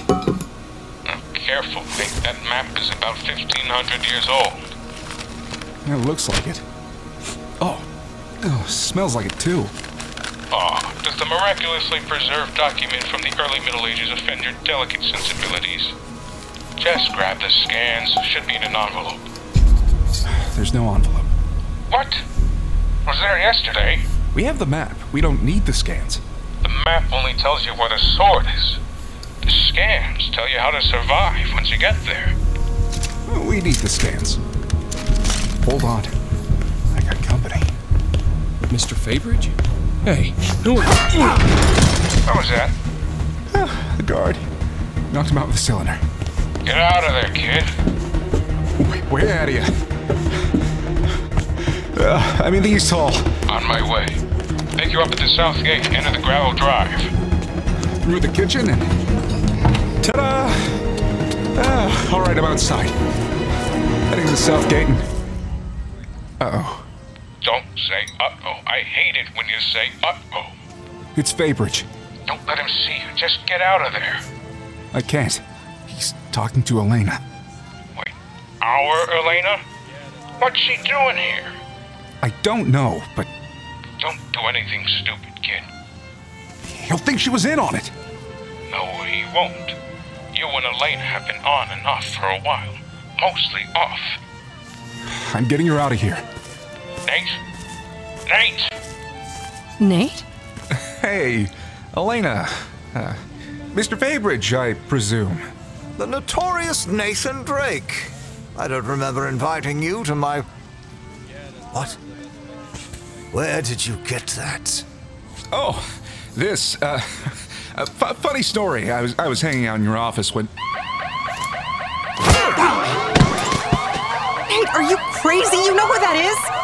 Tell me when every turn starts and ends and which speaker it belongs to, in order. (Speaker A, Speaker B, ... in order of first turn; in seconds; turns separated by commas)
Speaker A: 1.1-4.7, Speaker B: 5.8-6.7, Speaker B: 7.6-7.9, Speaker B: 8.4-9.7, Speaker A: 10.5-16.0, Speaker A: 16.8-19.3, Speaker B: 20.2-21.3, Speaker A: 21.9-22.2, Speaker A: 23.1-24.1, Speaker B: 24.3-26.2, Speaker A: 26.6-28.8, Speaker A: 29.4-32.4, Speaker B: 33.3-34.4, Speaker B: 35.6-36.1, Speaker B: 36.9-37.7, Speaker C: 38.7-41.5, Speaker A: 42.3-42.7, Speaker B: 43.5-44.5, Speaker B: 45.1-46.0, Speaker A: 46.6-47.7, Speaker B: 48.8-49.7, Speaker B: 51.7-53.3, Speaker A: 53.5-54.2, Speaker A: 54.8-57.1, Speaker B: 58.0-58.9, Speaker B: 60.0-60.9, Speaker B: 61.5-63.0, Speaker B: 64.1-65.1, Speaker B: 66.4-66.9, Speaker A: 67.4-70.5, Speaker B: 71.2-71.9, Speaker A: 72.3-74.2, Speaker B: 74.9-77.2, Speaker A: 78.0-79.6, Speaker A: 80.4-81.6, Speaker B: 82.2-83.3, Speaker A: 84.0-85.7, Speaker B: 86.7-87.9, Speaker A: 88.7-89.8, Speaker A: 90.3-94.2, Speaker B: 95.0-96.2, Speaker A: 97.1-97.4, Speaker A: 98.3-98.8, Speaker D: 99.8-100.2, Speaker B: 100.7-103.2, Speaker B: 103.7-105.5, Speaker E: 106.0-110.5, Speaker E: 111.7-112.0, Speaker E: 113.3-114.9, Speaker B: 115.5-120.5, Speaker D: 124.5-126.5